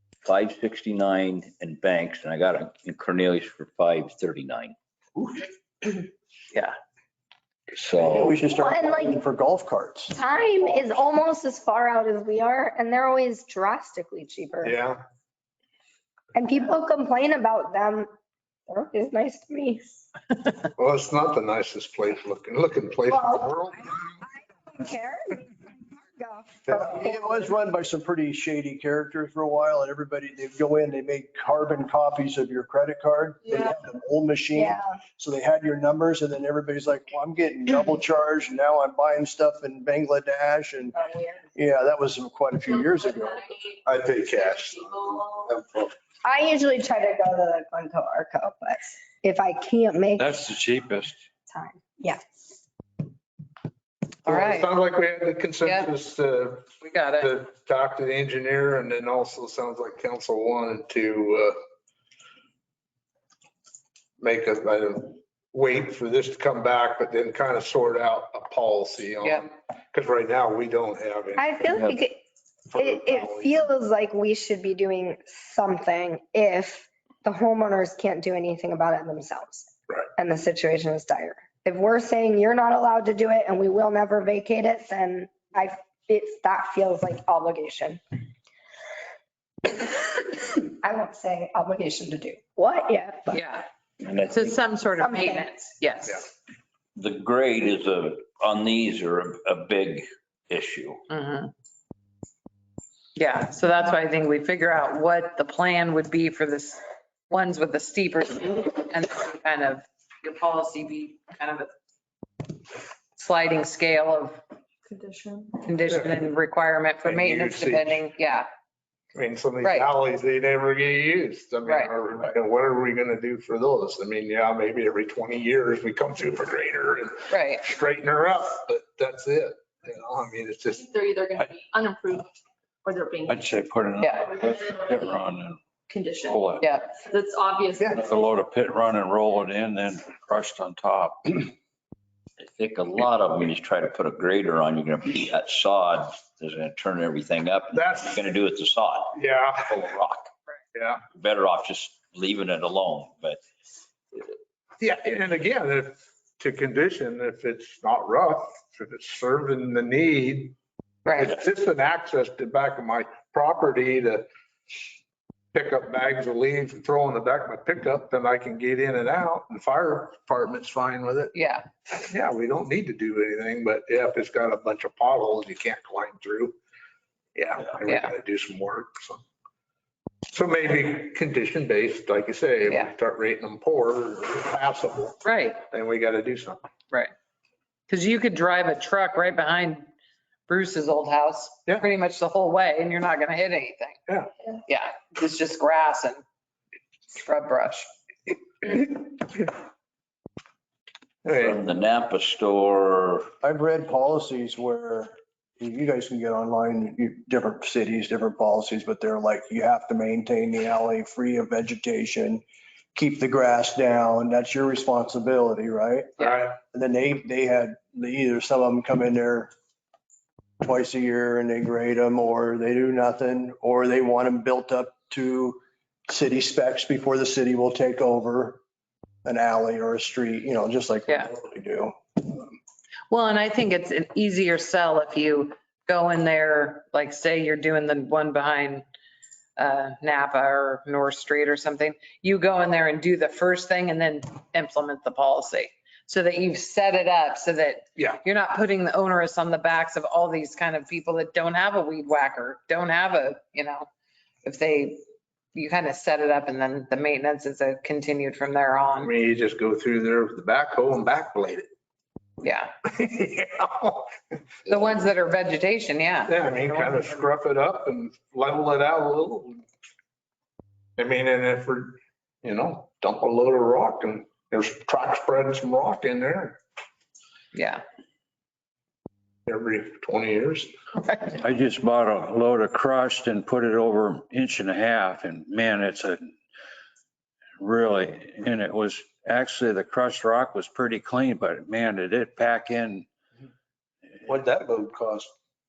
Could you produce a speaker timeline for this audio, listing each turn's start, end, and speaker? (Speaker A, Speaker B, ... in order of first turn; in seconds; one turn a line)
Speaker A: 0.2-4.7
Speaker A: 7.7-8.3
Speaker B: 8.0-10.1
Speaker C: 8.6-9.2
Speaker C: 10.1-14.8
Speaker D: 14.6-15.0
Speaker C: 16.3-18.1
Speaker C: 18.7-19.9
Speaker D: 20.8-23.9
Speaker C: 23.1-27.4
Speaker B: 26.7-41.0
Speaker C: 34.5-34.9
Speaker C: 40.9-41.5
Speaker B: 41.5-43.5
Speaker D: 43.9-45.9
Speaker C: 46.2-50.4
Speaker E: 50.2-51.2
Speaker C: 51.5-52.2
Speaker F: 54.2-54.7
Speaker D: 54.2-61.5
Speaker F: 56.8-57.3
Speaker D: 64.2-72.0
Speaker C: 71.3-72.2
Speaker D: 72.7-73.7
Speaker C: 72.7-88.0
Speaker C: 89.6-93.4
Speaker F: 93.3-93.7
Speaker A: 94.0-94.5
Speaker F: 94.3-96.2
Speaker C: 95.0-95.5
Speaker A: 97.0-101.0
Speaker F: 101.1-101.5
Speaker F: 103.2-111.7
Speaker F: 113.2-114.4
Speaker G: 114.9-115.5
Speaker F: 115.5-118.5
Speaker D: 117.0-118.1
Speaker D: 119.1-130.9
Speaker F: 119.6-119.9
Speaker F: 121.6-121.9
Speaker F: 127.3-127.6
Speaker G: 130.8-132.3
Speaker G: 132.8-133.4
Speaker E: 133.2-135.6
Speaker F: 134.0-134.3
Speaker G: 135.9-136.4
Speaker E: 136.2-136.7
Speaker F: 136.6-137.0
Speaker G: 137.0-137.9
Speaker E: 137.9-141.5
Speaker A: 142.4-150.3
Speaker D: 147.7-148.2
Speaker D: 149.1-149.8
Speaker D: 150.7-151.0
Speaker A: 151.1-153.4
Speaker D: 154.8-160.6
Speaker D: 161.2-164.3
Speaker D: 165.5-171.3
Speaker F: 171.3-171.7
Speaker D: 171.9-176.5
Speaker D: 177.3-179.2
Speaker F: 177.8-178.1
Speaker D: 180.3-186.6
Speaker F: 185.2-185.6
Speaker F: 187.9-189.8
Speaker F: 190.5-194.0
Speaker F: 194.7-196.2
Speaker F: 197.1-197.9
Speaker D: 201.2-201.6
Speaker A: 201.3-203.3
Speaker B: 203.4-212.4
Speaker B: 212.9-219.5
Speaker D: 216.2-216.5
Speaker B: 220.6-228.6
Speaker B: 229.2-232.5
Speaker F: 233.1-238.8
Speaker F: 239.6-253.9
Speaker F: 254.4-255.0
Speaker F: 255.5-259.1
Speaker D: 259.0-261.7
Speaker F: 262.4-262.7
Speaker D: 262.9-264.1
Speaker F: 264.7-267.1
Speaker D: 266.3-269.6
Speaker D: 271.0-276.6
Speaker F: 277.5-277.8
Speaker D: 279.5-280.7
Speaker F: 281.0-281.3
Speaker E: 281.4-286.2
Speaker E: 287.6-293.1
Speaker D: 294.2-295.3